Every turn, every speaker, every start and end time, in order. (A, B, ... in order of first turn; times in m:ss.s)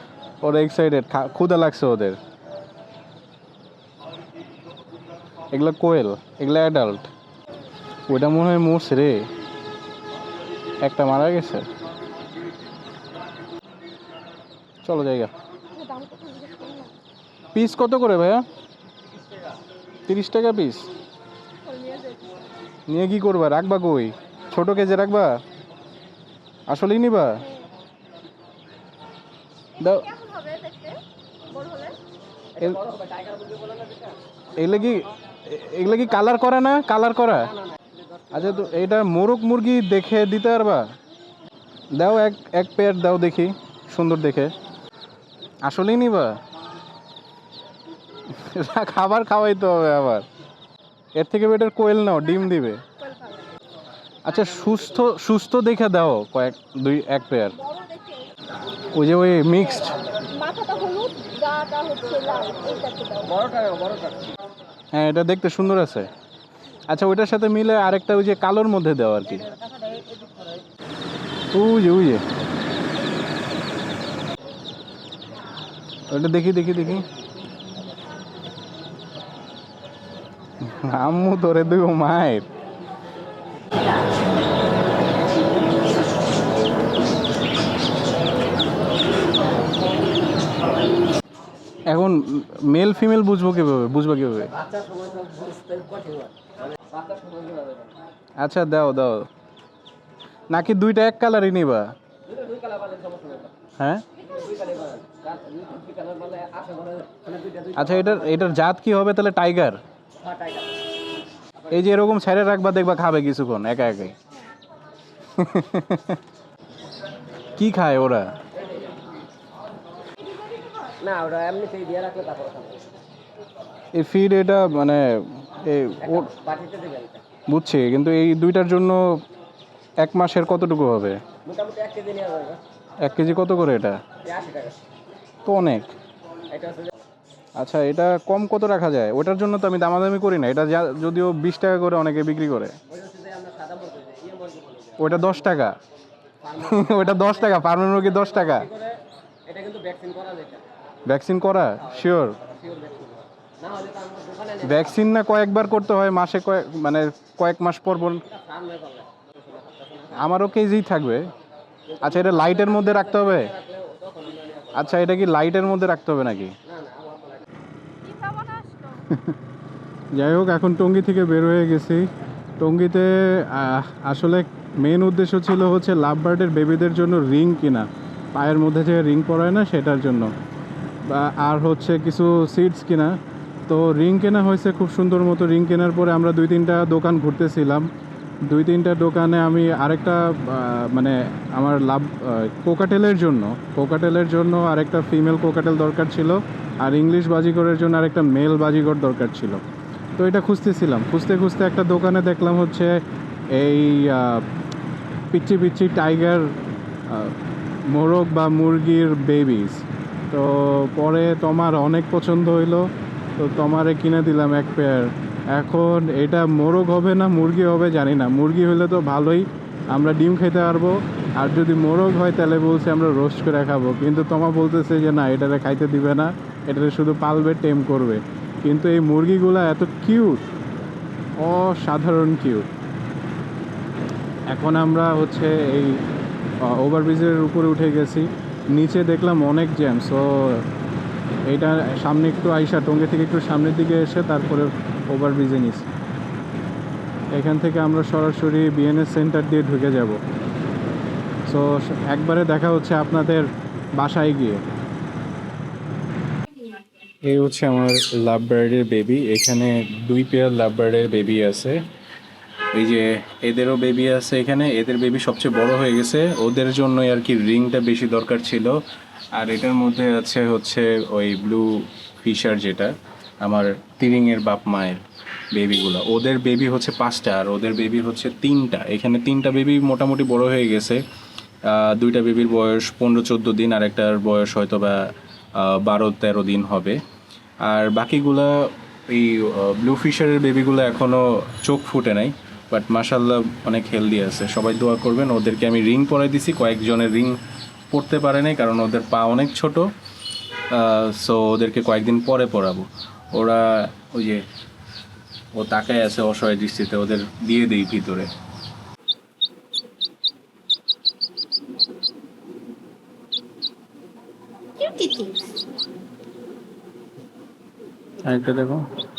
0:00.4-0:02.2 A
0:05.5-0:07.1 A
0:08.1-0:09.3 A
0:10.8-0:11.7 A
0:14.8-0:15.3 A
0:15.7-0:16.9 B
0:17.5-0:18.4 A
0:20.1-0:20.9 A
0:21.6-0:22.5 B
0:22.9-0:25.4 A
0:26.7-0:27.4 A
0:29.8-0:32.0 B
0:29.8-0:30.1 A
0:32.6-0:34.2 C
0:34.6-0:37.5 A
0:37.6-0:38.5 C
0:38.3-0:40.8 A
0:41.9-0:44.5 A
0:45.6-0:46.4 A
0:48.3-0:50.2 A
0:51.2-0:52.8 A
0:52.8-0:53.5 B
0:54.2-0:57.6 A
0:57.5-0:58.3 B
0:58.9-1:00.0 A
1:00.2-1:03.4 B
1:03.3-1:04.3 C
1:04.9-1:06.1 A
1:06.9-1:09.5 A
1:09.8-1:10.3 C
1:11.5-1:12.2 A
1:16.1-1:17.1 A
1:20.6-1:22.5 A
1:31.9-1:34.5 A
1:34.6-1:38.0 C
1:38.4-1:39.3 A
1:40.5-1:41.9 A
1:42.3-1:43.5 C
1:43.8-1:44.0 A
1:44.2-1:48.5 C
1:47.7-1:49.8 A
1:50.2-1:50.7 C
1:51.7-1:54.2 A
1:55.4-1:56.2 A
1:57.6-1:58.3 A
2:00.9-2:02.8 C
2:03.9-2:06.3 A
2:06.0-2:07.2 C
2:07.5-2:09.2 A
2:10.0-2:11.2 A
2:11.4-2:12.6 C
2:13.0-2:14.0 A
2:14.2-2:14.8 C
2:15.4-2:15.9 A
2:16.5-2:17.0 C
2:17.6-2:22.8 A
2:22.9-2:25.4 C
2:25.0-2:25.8 A
2:26.4-2:30.7 C
2:26.6-2:28.7 A
2:31.0-2:32.4 A
2:32.4-2:34.9 C
2:34.6-2:38.2 A
2:38.2-2:40.3 C
2:40.1-2:41.3 A
2:41.9-2:45.0 C
2:42.0-2:43.5 A
2:44.7-2:46.6 A
2:46.6-2:47.5 C
2:48.0-2:49.1 B
2:49.1-2:49.4 A
2:50.1-2:52.0 A
2:52.6-3:00.3 A
3:01.1-3:03.1 A
3:03.7-3:07.9 A
3:08.4-3:19.6 A
3:20.2-3:23.0 A
3:23.6-3:24.4 A
3:25.3-3:26.5 A
3:27.1-3:27.3 A
3:27.9-3:32.8 A
3:33.4-3:50.4 A
3:51.4-3:52.6 A
3:54.5-3:56.0 A
3:56.7-4:00.6 A
4:01.5-4:05.9 A
4:07.4-4:10.2 A
4:11.5-4:13.5 A
4:14.0-4:14.6 A
4:17.2-4:21.8 A
4:22.7-4:28.8 A
4:29.3-4:35.0 A
4:35.5-4:41.0 A
4:41.6-4:45.0 A
4:45.6-4:47.0 A
4:47.6-4:57.4 A
4:57.9-4:59.9 A
5:00.7-5:04.4 A
5:05.5-5:08.3 A
5:14.8-5:15.5 B
5:18.2-5:18.9 A